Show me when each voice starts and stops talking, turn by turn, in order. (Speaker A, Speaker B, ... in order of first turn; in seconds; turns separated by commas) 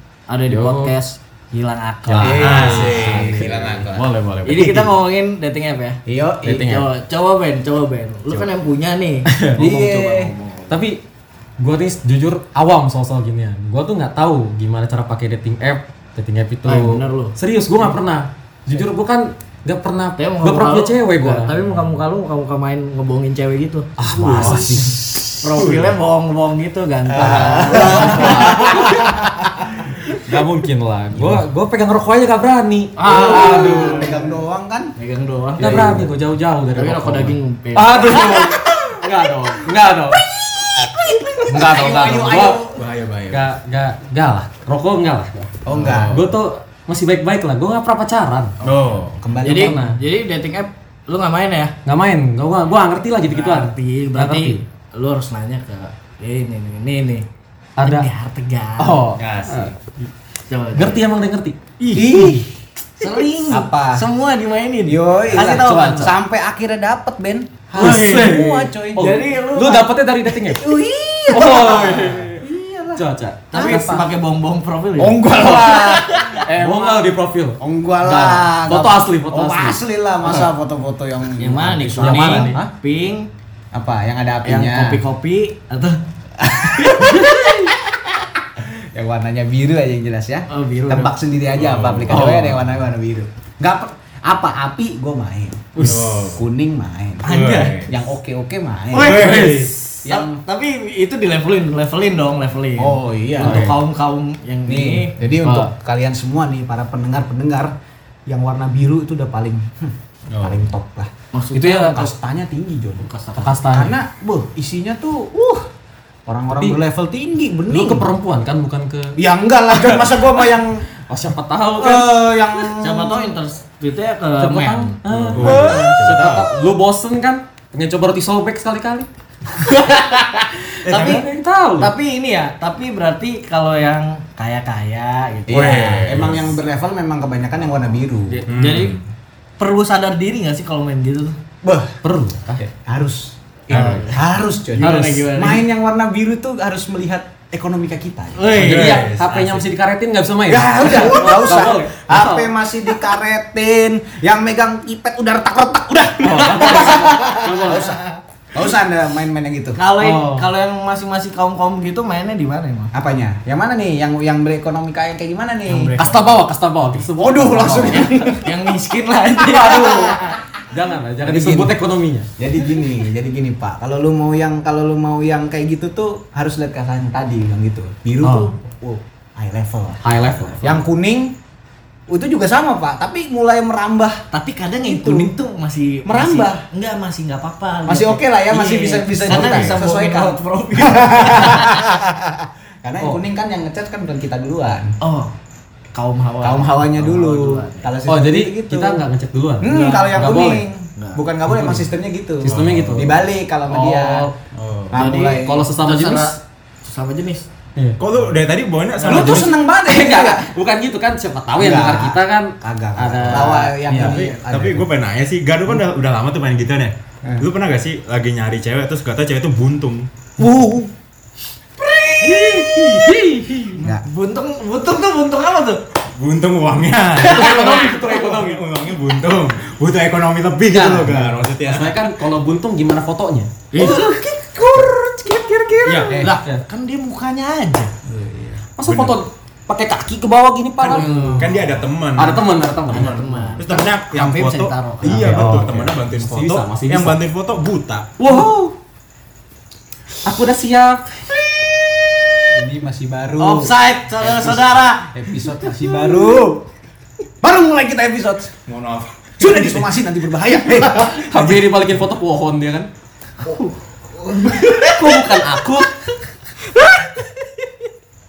Speaker A: 0.3-3.4, Speaker B: 0.5-0.9, Speaker B: 2.1-5.0, Speaker C: 2.2-4.1, Speaker D: 2.2-3.9, Speaker A: 4.4-6.0, Speaker C: 6.0-6.7, Speaker B: 6.4-6.8, Speaker A: 6.5-10.8, Speaker B: 9.3-9.6, Speaker C: 9.6-10.3, Speaker B: 10.7-11.0, Speaker B: 11.6-21.6, Speaker A: 16.6-17.4, Speaker A: 20.2-24.8, Speaker B: 24.0-25.9, Speaker C: 24.3-25.3, Speaker A: 25.4-29.0, Speaker C: 27.1-29.9, Speaker B: 27.4-29.3, Speaker B: 30.1-34.2, Speaker A: 33.0-34.3, Speaker C: 33.0-34.9, Speaker A: 35.0-36.1, Speaker B: 35.6-40.2, Speaker A: 36.7-38.3, Speaker C: 38.0-39.5, Speaker C: 40.1-42.8, Speaker B: 41.5-42.6, Speaker D: 42.7-43.4, Speaker B: 43.3-48.5, Speaker C: 45.6-46.2, Speaker D: 45.7-46.2, Speaker D: 48.6-49.2, Speaker A: 48.7-51.7, Speaker C: 49.1-49.8, Speaker B: 49.5-50.0, Speaker B: 51.8-54.6, Speaker A: 53.3-57.2, Speaker B: 57.8-58.1, Speaker A: 57.8-59.1, Speaker B: 58.8-59.7, Speaker D: 59.2-59.6, Speaker A: 60.5-61.0, Speaker B: 60.7-61.6, Speaker A: 61.8-62.4, Speaker C: 61.9-62.5, Speaker A: 63.0-66.1, Speaker C: 63.5-64.0, Speaker C: 64.8-69.0, Speaker B: 65.3-66.1, Speaker B: 67.7-70.7, Speaker A: 67.8-68.4, Speaker A: 69.0-69.9, Speaker C: 70.5-74.0, Speaker B: 71.3-72.4, Speaker B: 73.0-74.0, Speaker A: 73.5-76.4, Speaker C: 75.0-82.7, Speaker B: 75.3-80.5, Speaker A: 81.4-83.3, Speaker B: 82.0-82.6, Speaker C: 83.7-85.0, Speaker A: 84.4-86.0, Speaker C: 86.4-88.0, Speaker A: 86.8-87.3, Speaker C: 88.5-97.3, Speaker A: 90.5-91.1, Speaker D: 91.5-92.5, Speaker B: 92.1-92.5, Speaker D: 95.8-96.4, Speaker A: 97.2-97.9, Speaker D: 97.2-98.0, Speaker C: 97.9-99.4, Speaker A: 98.9-105.1, Speaker D: 98.9-99.7, Speaker B: 99.0-99.7, Speaker C: 100.0-100.4, Speaker C: 102.8-103.7, Speaker D: 103.4-103.8, Speaker C: 104.7-107.7, Speaker B: 105.4-105.7, Speaker C: 108.3-111.1, Speaker D: 110.3-110.6, Speaker A: 111.3-112.0, Speaker B: 111.5-112.1, Speaker C: 111.7-113.0, Speaker A: 113.0-113.6, Speaker B: 113.3-113.9, Speaker C: 113.7-115.6, Speaker C: 116.3-118.1, Speaker B: 116.5-116.8, Speaker B: 117.7-119.2, Speaker C: 119.2-120.9, Speaker B: 121.1-122.1, Speaker C: 121.8-123.3, Speaker A: 122.8-125.0, Speaker B: 124.4-129.1, Speaker D: 125.1-126.5, Speaker C: 125.3-126.1, Speaker A: 129.6-131.2, Speaker B: 130.8-131.9, Speaker D: 130.9-131.2, Speaker A: 131.8-136.3, Speaker C: 135.5-138.4, Speaker D: 135.5-136.6, Speaker A: 138.3-139.0, Speaker D: 138.5-139.0, Speaker A: 139.6-141.4, Speaker C: 141.6-142.0, Speaker B: 142.0-142.6, Speaker C: 142.6-148.6, Speaker A: 143.7-144.2, Speaker D: 143.7-144.1, Speaker A: 144.7-145.6, Speaker B: 144.8-145.2, Speaker A: 148.3-149.0, Speaker D: 148.5-149.7, Speaker B: 148.6-152.5, Speaker C: 150.5-159.8, Speaker B: 156.2-158.0, Speaker A: 159.8-162.9, Speaker B: 160.0-160.5, Speaker C: 162.9-165.9, Speaker A: 165.7-166.3, Speaker B: 166.0-168.2, Speaker C: 167.2-168.5, Speaker A: 167.6-170.4, Speaker B: 169.4-172.3, Speaker C: 171.2-171.7, Speaker C: 172.4-181.3, Speaker B: 178.2-178.5, Speaker B: 180.0-180.8, Speaker C: 182.1-184.2, Speaker A: 184.3-191.8, Speaker C: 184.8-185.3, Speaker C: 186.0-186.6, Speaker C: 187.9-194.9, Speaker B: 189.3-189.6, Speaker A: 195.0-195.3, Speaker A: 195.9-197.9, Speaker C: 196.4-199.0, Speaker B: 198.1-200.7, Speaker C: 199.6-204.3, Speaker A: 199.7-200.2, Speaker A: 201.0-201.2, Speaker B: 201.5-201.8, Speaker B: 202.4-203.2, Speaker D: 202.4-203.1, Speaker B: 203.7-204.3, Speaker D: 204.5-205.0, Speaker C: 204.9-205.6, Speaker A: 204.9-207.4, Speaker B: 205.2-206.3, Speaker D: 208.0-209.5, Speaker C: 209.0-210.5, Speaker B: 209.0-214.2, Speaker C: 211.6-214.8, Speaker D: 213.9-220.1, Speaker C: 220.4-220.9, Speaker A: 221.9-222.9, Speaker B: 222.2-223.8, Speaker A: 223.8-225.8, Speaker D: 226.1-232.1, Speaker A: 227.2-228.0, Speaker B: 227.2-228.6, Speaker B: 230.7-236.6, Speaker A: 233.7-234.2, Speaker D: 235.8-236.2, Speaker C: 236.1-236.3, Speaker A: 236.2-237.9, Speaker D: 238.2-239.2, Speaker B: 238.8-243.5, Speaker D: 240.8-248.1, Speaker A: 240.9-241.5, Speaker A: 242.9-245.5, Speaker B: 245.1-247.2, Speaker B: 248.2-248.7, Speaker B: 250.2-251.4, Speaker C: 252.5-256.6, Speaker A: 253.4-256.2, Speaker C: 257.4-258.5, Speaker D: 258.7-259.9, Speaker C: 259.4-261.3, Speaker B: 260.9-262.9, Speaker D: 261.3-261.6, Speaker C: 264.1-264.9, Speaker A: 264.5-264.9, Speaker B: 264.6-266.0